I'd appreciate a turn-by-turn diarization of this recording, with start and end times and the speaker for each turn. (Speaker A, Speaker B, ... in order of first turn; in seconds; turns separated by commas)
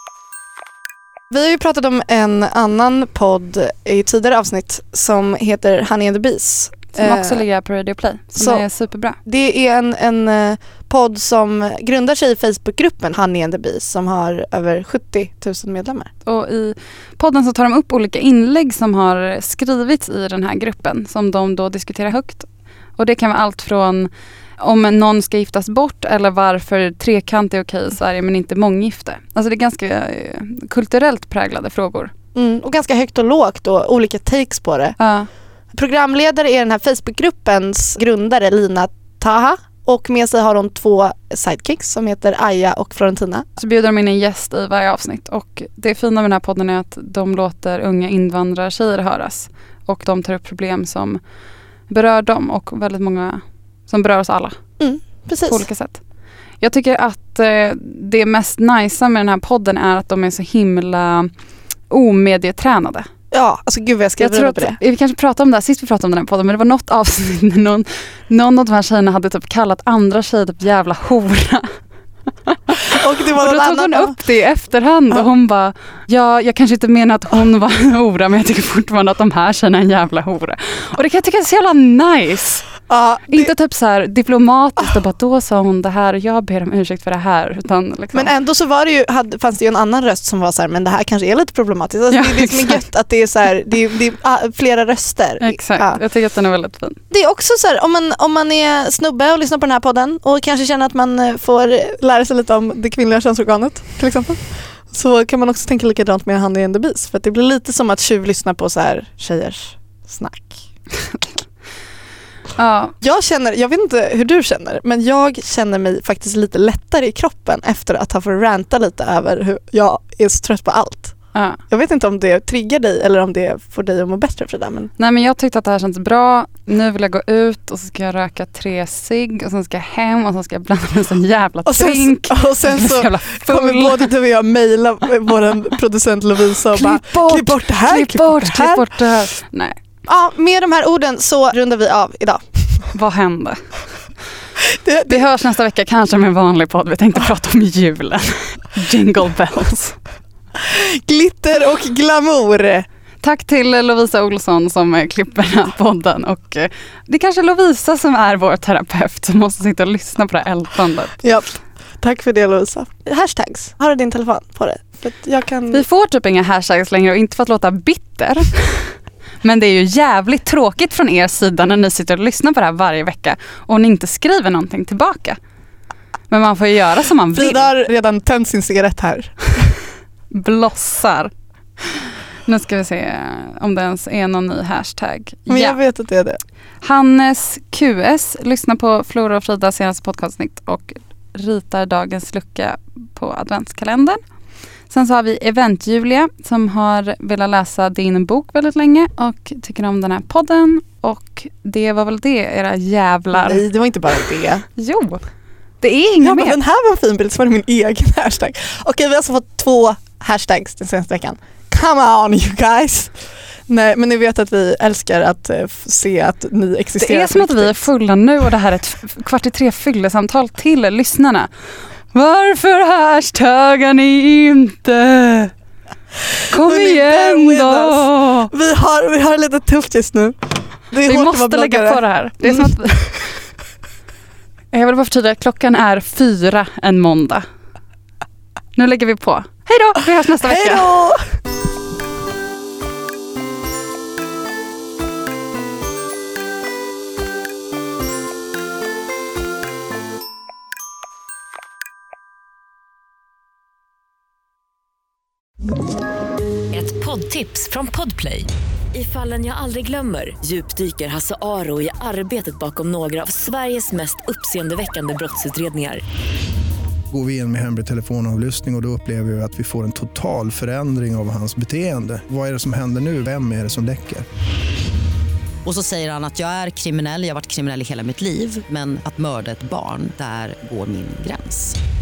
Speaker A: 1.3-7.4, Speaker B: 7.0-9.2, Speaker A: 8.3-8.6, Speaker A: 9.2-16.1, Speaker B: 16.2-32.1, Speaker A: 32.4-35.0, Speaker B: 35.0-35.3, Speaker A: 35.7-43.5, Speaker B: 43.6-51.2, Speaker B: 51.9-54.6, Speaker A: 54.8-55.6, Speaker B: 55.5-56.0, Speaker B: 56.6-61.3, Speaker B: 61.9-63.1, Speaker A: 63.3-64.8, Speaker B: 64.2-71.7, Speaker B: 72.5-88.3, Speaker A: 72.8-74.2, Speaker A: 82.9-83.5, Speaker A: 88.1-96.0, Speaker B: 92.1-92.8, Speaker B: 95.4-97.0, Speaker A: 97.1-110.6, Speaker B: 112.6-113.0, Speaker A: 113.0-124.9, Speaker B: 121.3-121.6, Speaker B: 125.0-134.1, Speaker A: 131.7-138.9, Speaker B: 136.7-139.8, Speaker A: 140.1-142.9, Speaker B: 142.9-143.6, Speaker A: 144.7-145.2, Speaker B: 145.1-150.0, Speaker A: 150.6-152.9, Speaker B: 153.2-161.2, Speaker A: 161.2-165.8, Speaker B: 165.7-175.4, Speaker B: 176.3-177.7, Speaker A: 177.3-179.4, Speaker B: 180.3-185.8, Speaker A: 185.5-186.4, Speaker B: 186.8-194.2, Speaker B: 194.9-203.6, Speaker A: 203.3-204.7, Speaker B: 204.8-205.2, Speaker B: 205.8-206.6, Speaker A: 206.2-213.2, Speaker A: 213.7-217.8, Speaker B: 217.0-221.5, Speaker B: 222.1-225.5, Speaker A: 226.4-232.7, Speaker B: 226.5-228.5, Speaker B: 231.1-233.2, Speaker B: 234.7-237.5, Speaker B: 238.8-240.9, Speaker A: 240.4-241.3, Speaker C: 256.7-266.0, Speaker D: 267.1-274.3, Speaker E: 275.6-281.8